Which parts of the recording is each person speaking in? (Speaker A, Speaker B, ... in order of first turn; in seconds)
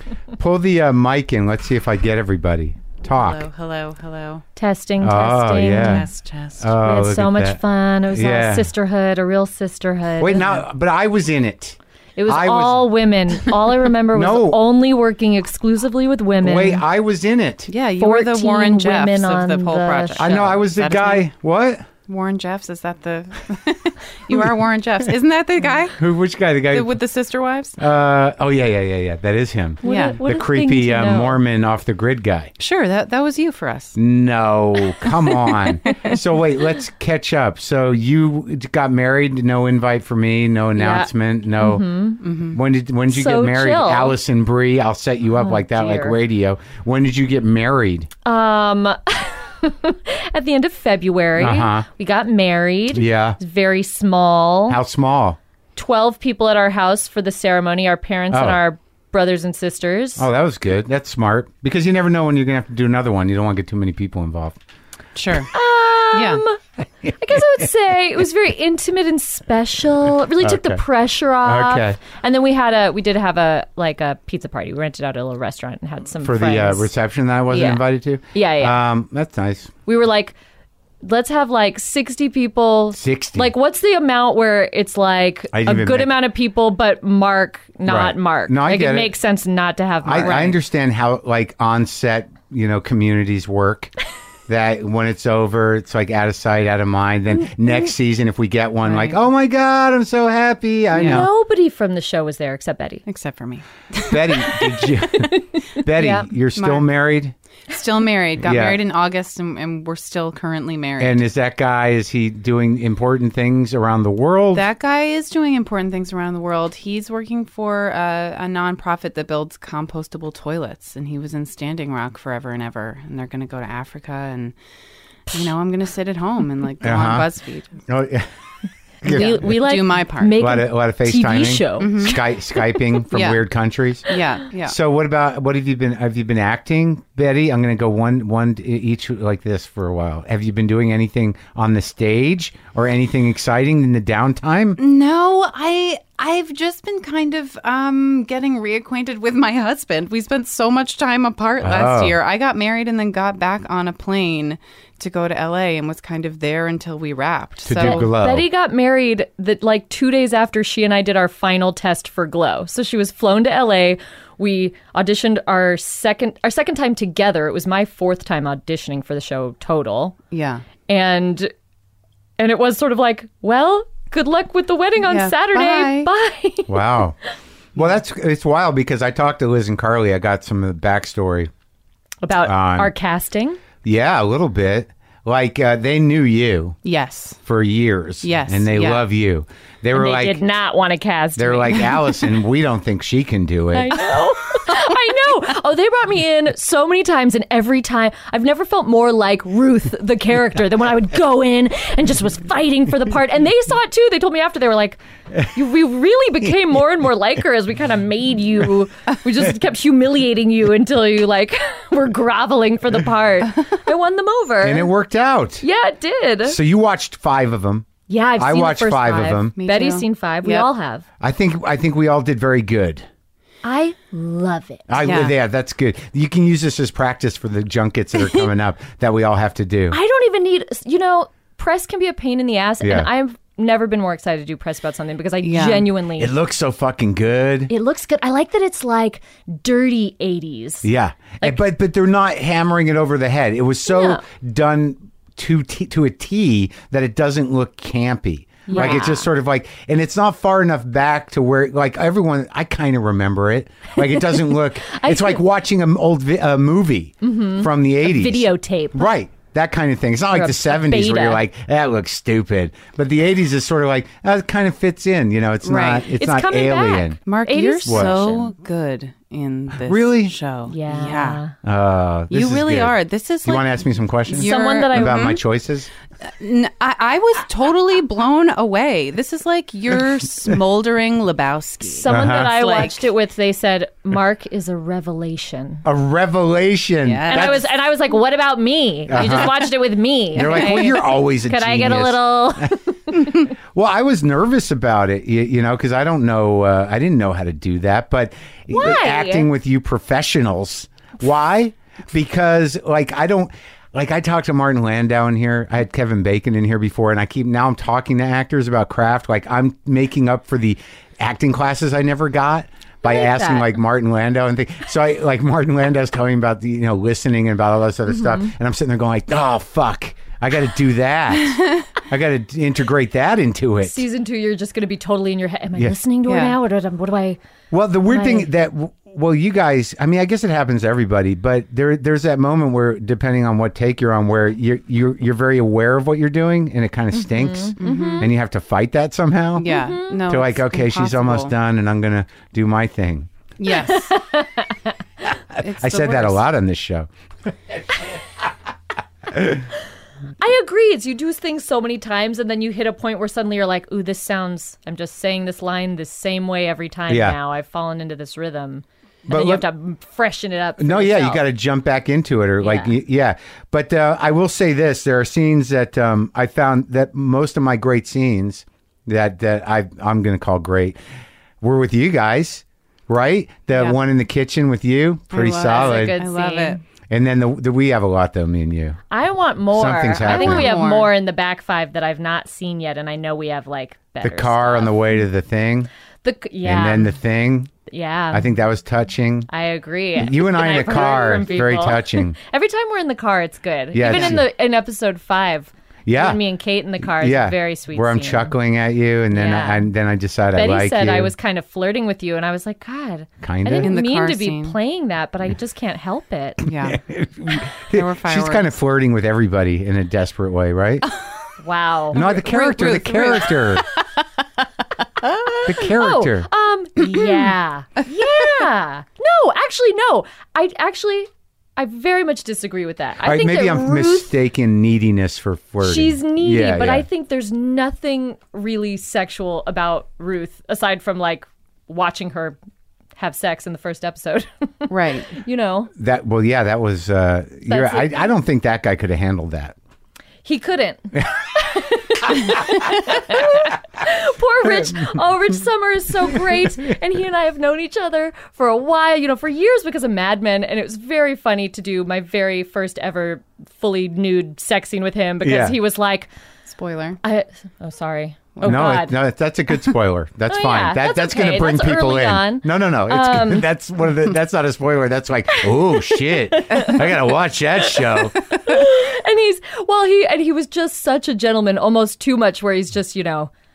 Speaker A: 0.4-3.5, 5.0-6.1, 6.6-8.7, 10.2-12.8, 14.1-14.6, 16.4-17.7, 20.2-21.9, 26.0-26.9, 27.8-32.5, 34.0-41.9, 42.5-48.1, 51.4-51.9, 52.9-53.4, 54.7-55.4, 58.3-58.6, 60.2-64.6, 70.4-70.8, 71.4-72.0, 76.2-79.7, 82.9-83.5, 85.5-86.1, 87.8-89.1, 90.0-93.9, 94.5-101.3, 104.1-107.3, 108.4-108.8, 111.0-114.7, 126.8-127.3, 127.9-128.3, 129.0-129.3, 130.4-134.1, 134.7-144.8, 151.6-152.2, 157.7-158.5, 176.7-177.2, 177.8-181.5, 182.4-182.9, 183.8-186.8, 187.4-190.4, 191.4-193.9, 214.6-215.6, 216.5-219.6, 221.2-223.1, 224.9-230.0, 232.8-233.1, 236.2-237.7, 240.8-267.2, 267.9-268.1, 269.9-270.3, 271.6-272.9, 273.4-275.9, 282.1-282.5, 285.8-287.6, 289.1-289.5, 290.4-292.3, 293.8-324.0, 327.7-339.7, 340.3-343.3, 345.6-347.1, 349.3-349.6, 357.1-357.4, 359.3-359.7, 360.8-371.0, 371.6-376.2, 377.1-379.0, 379.7-380.7, 384.2-385.9, 386.6-387.7, 388.3-389.5, 390.2-392.4, 393.9-394.4, 396.1-396.4, 397.2-401.3, 403.4-403.9, 406.8-411.1, 412.1-413.9, 415.6-416.5, 423.2-427.1, 436.0-439.8, 455.4-455.8, 458.6-468.6
Speaker B: 3.1-4.5, 5.7-6.7, 17.7-21.3, 22.1-26.0, 26.7-27.8, 29.8-30.2, 32.6-34.0, 35.9-36.2, 42.2-42.6, 65.2-65.5, 66.1-66.4, 98.8-99.2, 101.0-101.3, 103.1-104.8, 106.6-106.9, 107.7-111.2, 114.5-124.5, 125.3-127.8, 129.1-130.4, 131.8-132.2, 133.1-133.4, 134.1-134.8, 144.8-158.1, 170.3-170.7, 175.1-176.1, 186.8-187.4, 188.2-189.0, 194.0-194.8, 219.6-220.7, 225.0-225.3, 235.4-235.9, 265.6-266.1, 267.3-271.4, 272.3-275.4, 276.3-283.1, 287.0-287.7, 289.2-289.7, 290.4-290.9, 326.3-326.6, 337.8-338.3, 339.6-341.5, 343.6-344.2, 345.6-346.4, 375.3-376.8, 380.2-381.1, 394.1-394.4, 403.8-404.8, 406.7-407.0, 407.8-408.8, 412.1-414.0, 415.2-415.6, 417.0-417.5, 434.9-435.3, 456.7-457.2
Speaker C: 4.6-6.1, 6.8-10.6, 12.2-16.8, 18.0-20.6, 29.8-31.4, 40.8-42.2, 43.1-44.2, 45.3-46.2, 48.2-54.8, 55.8-60.3, 65.5-66.6, 67.2-76.9, 77.5-77.8, 78.3-78.8, 79.9-80.4, 81.0-90.6, 101.0-103.0, 105.1-106.3, 129.1-132.2, 157.8-170.2, 170.9-171.5, 172.4-177.0, 182.2-183.6, 189.9-192.2, 193.7-214.9, 215.6-216.6, 218.1-221.1, 223.6-225.0, 229.9-236.3, 237.7-240.9, 243.9-244.2, 248.7-249.3, 254.0-255.4, 257.2-259.1, 260.3-261.4, 266.1-268.5, 270.7-271.5, 274.4-275.3, 281.8-285.8, 287.3-293.2, 298.7-299.5, 313.0-313.7, 318.1-318.5, 323.8-327.4, 328.1-328.5, 337.3-338.3, 339.6-340.3, 343.7-344.7, 350.4-361.4, 362.6-362.9, 375.7-376.8, 379.1-385.1, 386.2-387.1, 387.9-388.5, 389.5-398.5, 399.3-399.9, 400.5-406.6, 411.6-412.3, 415.7-424.3, 425.8-432.6, 433.2-435.9, 437.7-438.3, 440.4-456.3, 457.2-459.2, 460.5-463.7, 465.6-467.1, 467.8-473.5